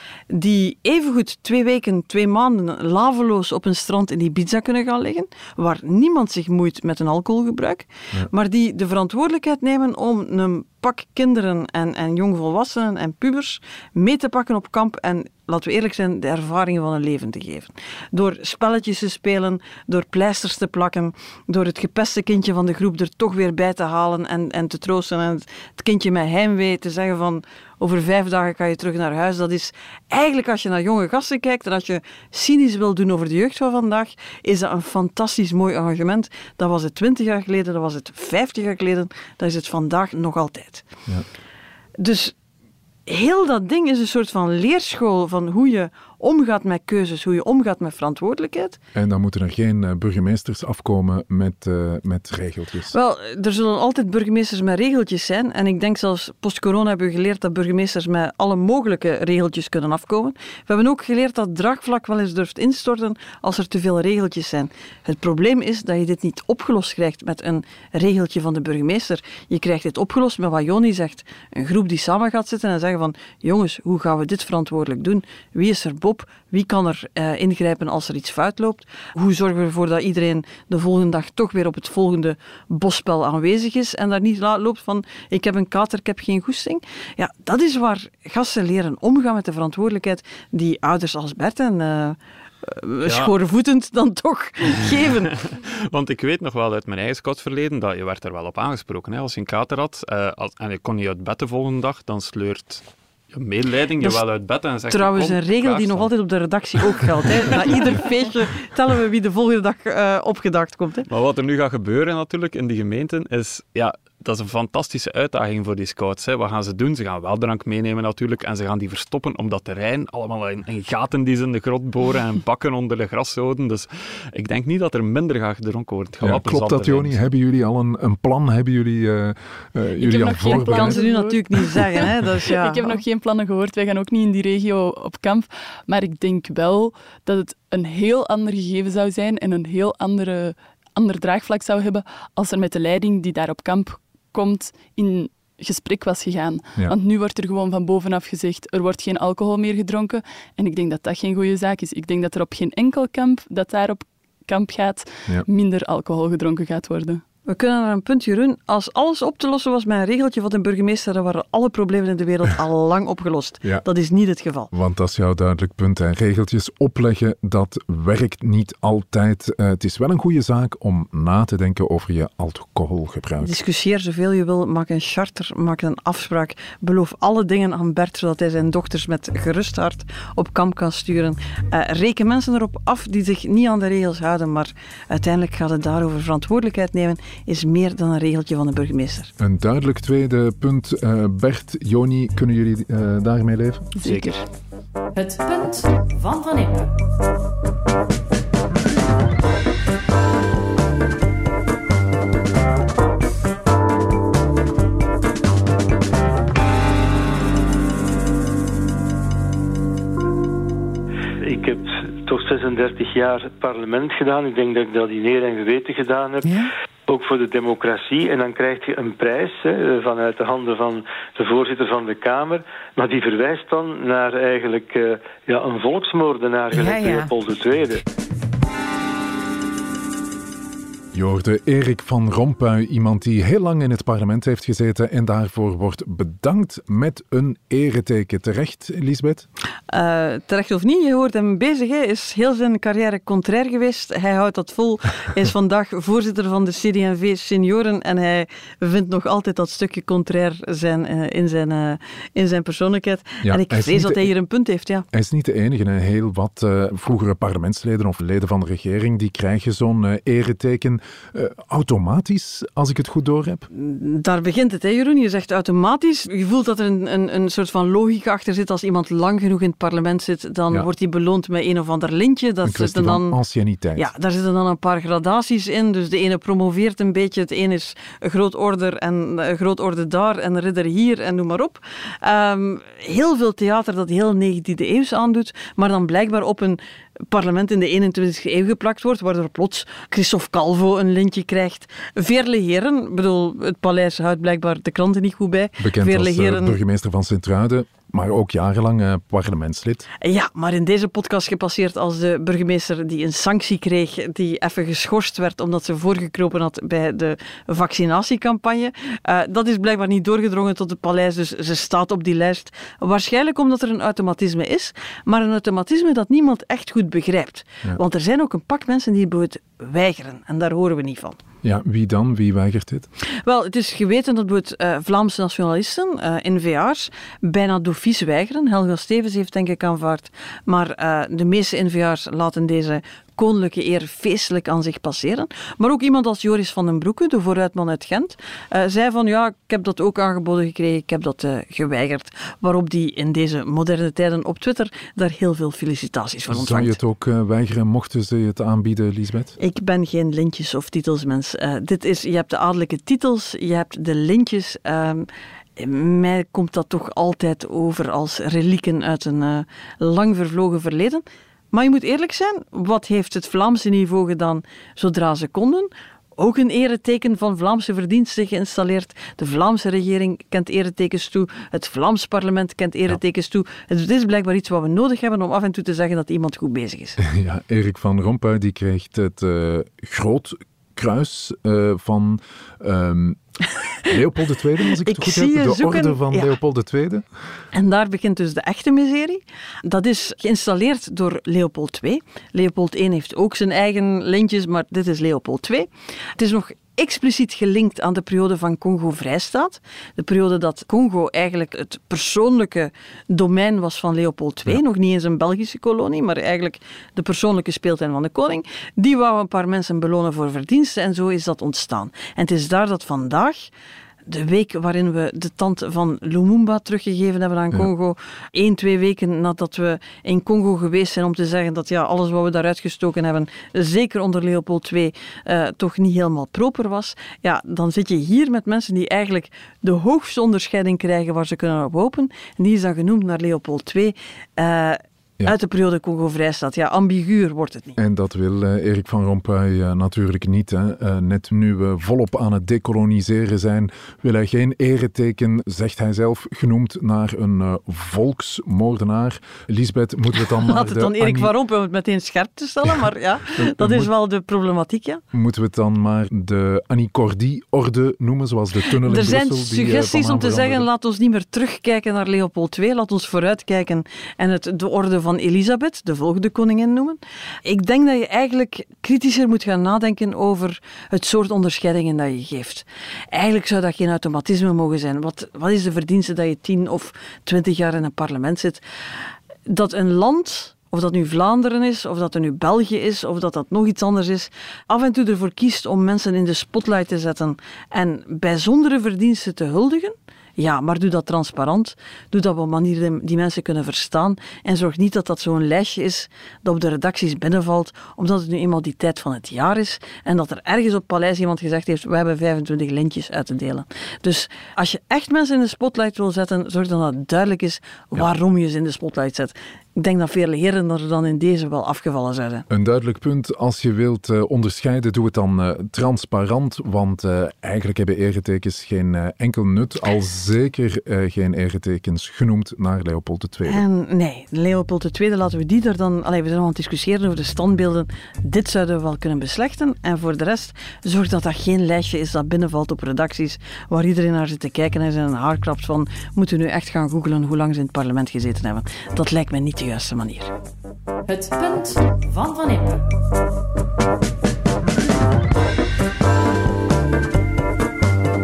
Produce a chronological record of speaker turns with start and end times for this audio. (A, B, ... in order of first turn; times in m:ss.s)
0:00.3-0:40.9 A
0:42.0-0:42.3 A
0:43.1-0:48.8 A
0:48.9-0:53.0 B
0:52.9-1:35.4 A
1:33.0-1:33.3 C
1:35.4-1:46.1 C
1:44.9-1:51.1 A
1:46.7-1:47.9 C
1:51.1-2:07.3 C
2:06.2-2:11.0 B
2:09.9-2:37.2 D
2:10.5-2:13.0 A
2:37.5-2:44.7 A
2:44.7-2:53.6 B
2:53.4-3:09.3 A
3:09.4-3:13.9 B
3:14.0-3:14.4 D
3:14.0-3:14.3 C
3:15.1-3:16.9 E
3:31.4-3:48.0 F
3:46.7-3:47.3 A
3:51.1-3:59.5 B
3:59.9-4:15.0 A
4:13.4-4:14.3 B
4:15.1-4:23.7 B
4:23.7-4:33.4 A
4:32.6-4:34.1 B
4:34.0-4:56.8 A
4:55.8-5:00.1 B
5:00.2-5:21.4 A
5:21.6-5:23.1 B
5:23.4-5:47.0 A
5:46.5-5:49.6 B
5:49.6-6:17.2 A
6:17.2-6:23.4 B
6:24.0-6:27.2 B
6:25.0-6:26.6 A
6:27.7-6:53.7 A
6:54.2-7:18.0 A
7:18.0-7:31.5 B
7:30.6-7:35.2 A
7:33.6-7:34.1 B
7:35.3-7:40.9 B
7:39.0-7:58.8 A
7:59.7-8:32.6 A
8:32.7-8:43.8 B
8:43.6-9:00.5 A
9:01.3-9:03.0 E